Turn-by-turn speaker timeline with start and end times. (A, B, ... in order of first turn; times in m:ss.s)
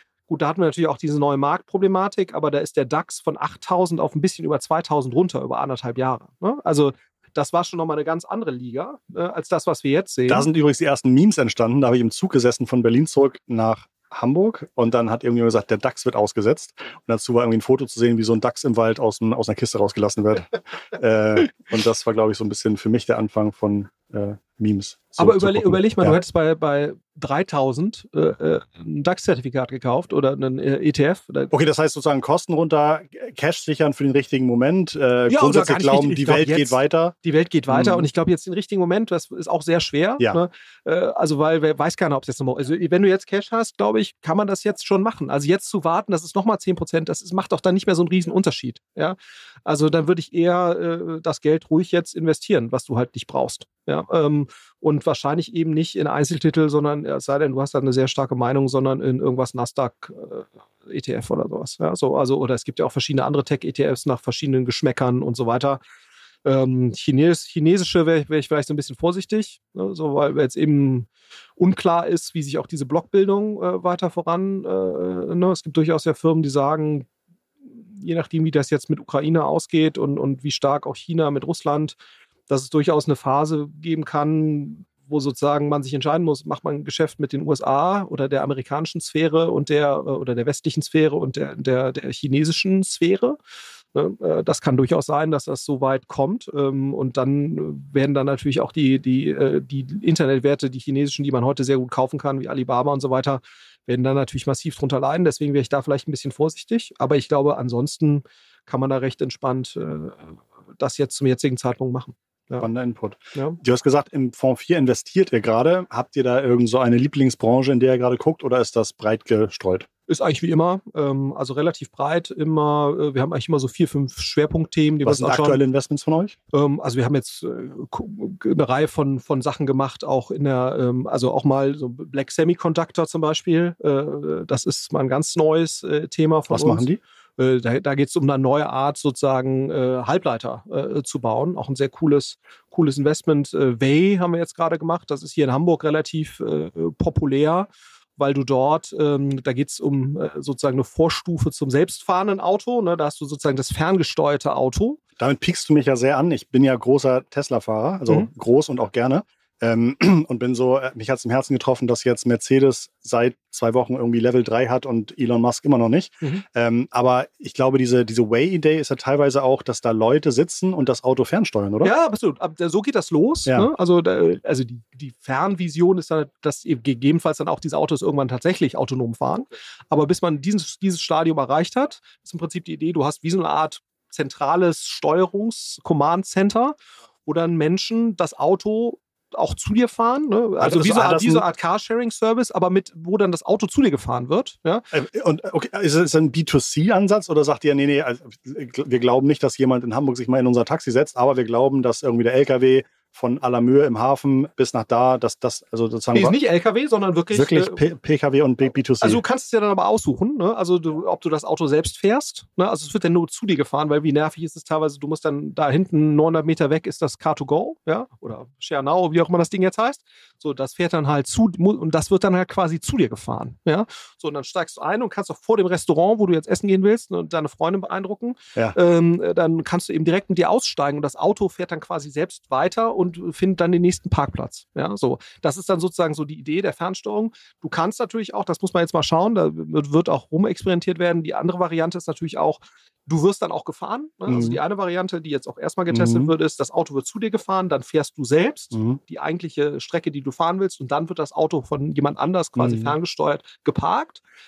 0:00.3-0:10.5 A
0:10.3-0:26.2 B
0:25.2-0:31.5 A
0:31.5-0:37.1 B
0:35.3-1:05.8 A
0:37.7-0:38.0 B
1:06.4-1:17.1 A
1:17.9-1:22.0 A
1:22.5-1:33.4 A
1:33.9-1:52.7 A
1:52.6-1:59.9 B
2:00.1-2:05.6 A
2:05.0-2:06.4 B
2:06.5-2:16.9 A
2:16.5-2:17.0 B
2:17.4-2:35.0 A
2:35.2-2:51.9 B
2:51.8-3:14.9 A
3:10.6-3:11.4 B
3:14.9-3:26.4 B
3:26.1-3:27.8 A
3:27.3-3:29.2 B
3:29.0-4:14.2 A
4:04.3-4:04.6 B
4:05.9-4:06.3 B
4:08.7-4:09.0 B
4:12.6-4:13.0 B